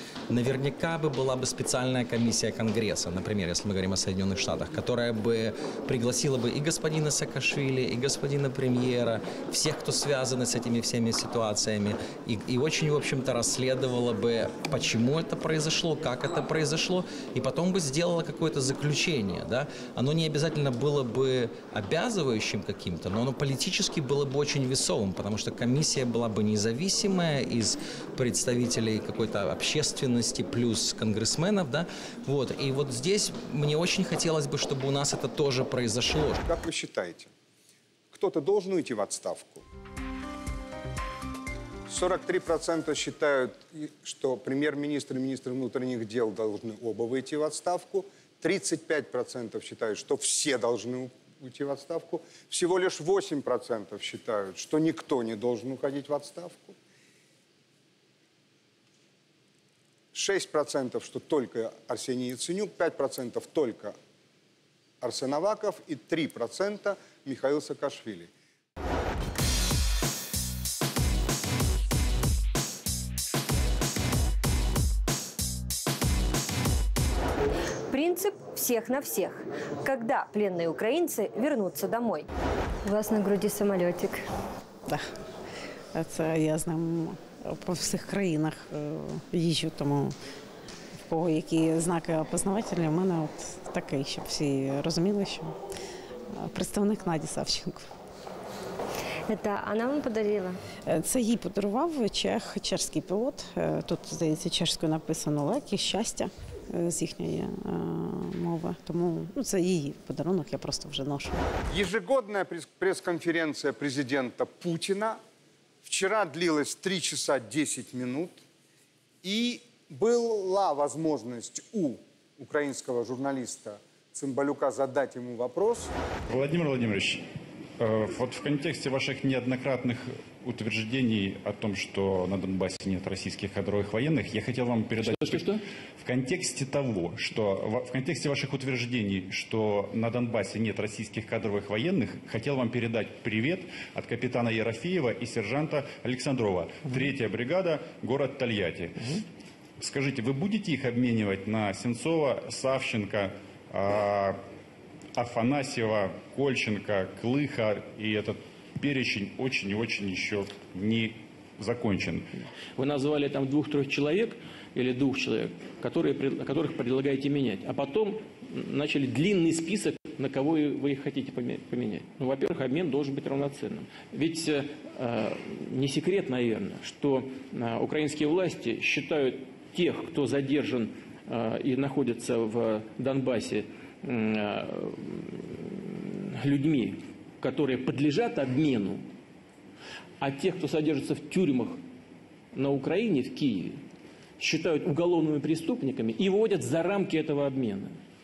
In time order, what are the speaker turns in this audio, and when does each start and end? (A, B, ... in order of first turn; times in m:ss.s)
0:00.3-0:36.4 A
0:36.6-0:37.3 B
0:38.1-0:39.6 B
0:41.9-0:56.8 B
1:00.1-1:03.9 B
1:05.0-1:08.3 B
1:17.9-1:22.3 C
1:22.8-1:24.2 C
1:25.9-1:30.1 D
1:31.0-1:35.5 D
1:36.3-1:37.8 D
1:39.3-1:40.6 C
1:40.9-1:51.4 D
1:51.7-1:55.2 B
1:55.8-1:58.4 B
1:59.2-2:05.9 B
2:06.3-2:07.2 E
2:07.8-2:29.1 E
2:15.0-2:15.6 F
2:29.8-2:34.4 E
2:35.2-2:42.3 E
2:42.8-3:09.1 F
3:10.2-3:11.8 F
3:12.5-3:13.8 F
3:14.4-3:18.0 F